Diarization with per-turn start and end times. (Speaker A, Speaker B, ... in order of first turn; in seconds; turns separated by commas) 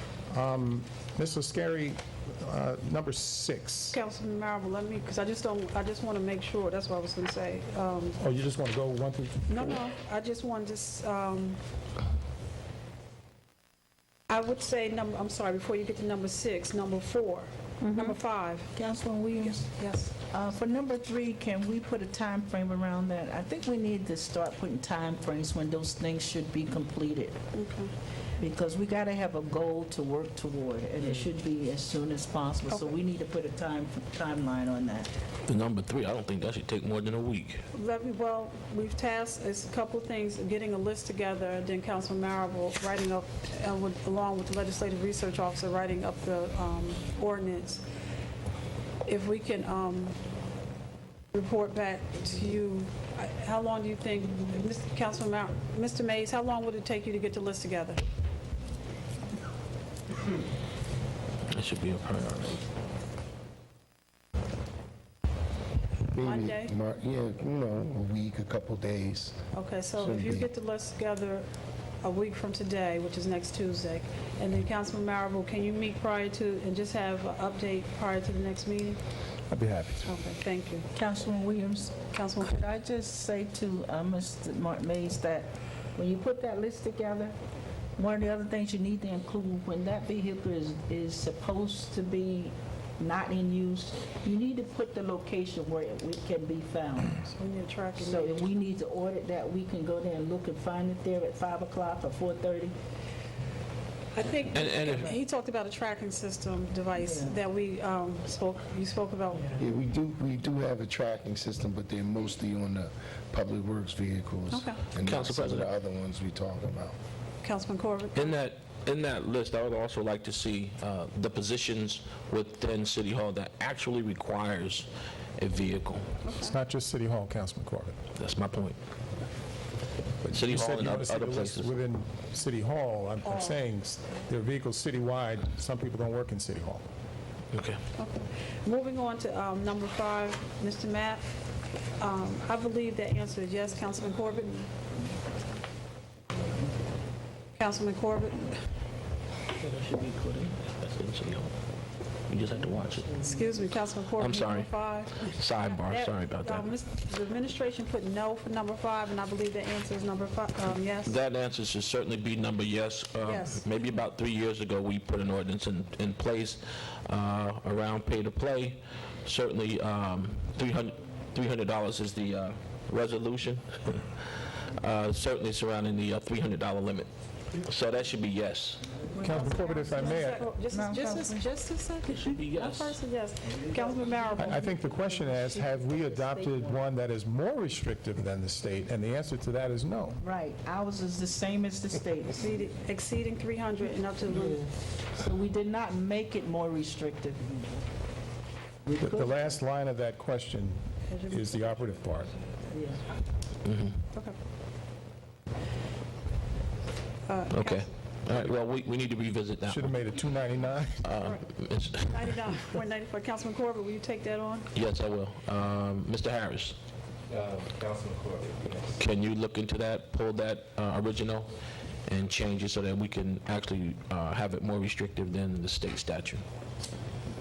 Speaker A: 0.3-4.0, Speaker B: 3.9-8.2, Speaker A: 8.2-9.8, Speaker B: 9.5-11.6, Speaker B: 14.3-18.7, Speaker C: 17.8-18.1, Speaker C: 18.7-19.7, Speaker B: 19.7-20.2, Speaker C: 20.2-27.4, Speaker B: 27.5-27.9, Speaker C: 28.4-35.1, Speaker B: 32.7-33.0, Speaker D: 35.5-37.6, Speaker B: 37.7-47.8, Speaker B: 49.0-50.1, Speaker B: 51.3-58.0, Speaker D: 61.5-62.6, Speaker E: 66.1-70.5, Speaker B: 66.2-66.7, Speaker B: 69.5-71.5, Speaker B: 72.0-79.0, Speaker A: 79.5-80.1, Speaker B: 80.0-80.9, Speaker C: 80.9-87.3, Speaker B: 82.1-82.6, Speaker C: 88.0-97.2, Speaker B: 97.2-98.5, Speaker C: 98.1-102.7, Speaker B: 104.1-109.6, Speaker D: 104.5-105.2, Speaker E: 109.6-117.0, Speaker B: 114.5-114.9, Speaker D: 115.0-115.7, Speaker B: 117.4-118.4, Speaker D: 118.1-124.9, Speaker D: 125.4-126.1, Speaker B: 126.2-126.5, Speaker A: 126.4-127.9, Speaker D: 128.2-128.8, Speaker A: 130.2-136.8, Speaker D: 130.3-131.8, Speaker B: 133.2-133.6, Speaker D: 137.5-137.8, Speaker B: 138.0-141.2, Speaker B: 142.0-144.7, Speaker B: 147.6-148.6, Speaker D: 149.5-151.5, Speaker D: 152.3-153.3, Speaker B: 153.2-161.2, Speaker D: 154.1-154.7, Speaker D: 155.2-156.7, Speaker D: 161.0-177.1, Speaker B: 163.2-163.6, Speaker D: 177.6-178.9, Speaker C: 179.1-181.4, Speaker A: 179.2-180.5, Speaker B: 179.3-184.5, Speaker D: 182.1-183.0, Speaker A: 184.3-190.2, Speaker C: 184.6-186.8, Speaker C: 190.2-192.4, Speaker B: 192.3-194.7, Speaker C: 194.3-197.8, Speaker C: 198.9-199.4, Speaker A: 199.0-202.3, Speaker B: 201.1-201.8, Speaker C: 202.7-203.0, Speaker D: 203.6-204.0, Speaker B: 207.3-207.9, Speaker D: 207.5-210.0, Speaker A: 209.6-211.1, Speaker D: 211.0-212.2, Speaker B: 211.2-214.7, Speaker D: 214.7-216.8, Speaker E: 217.3-218.8, Speaker D: 219.0-221.5, Speaker D: 222.1-226.4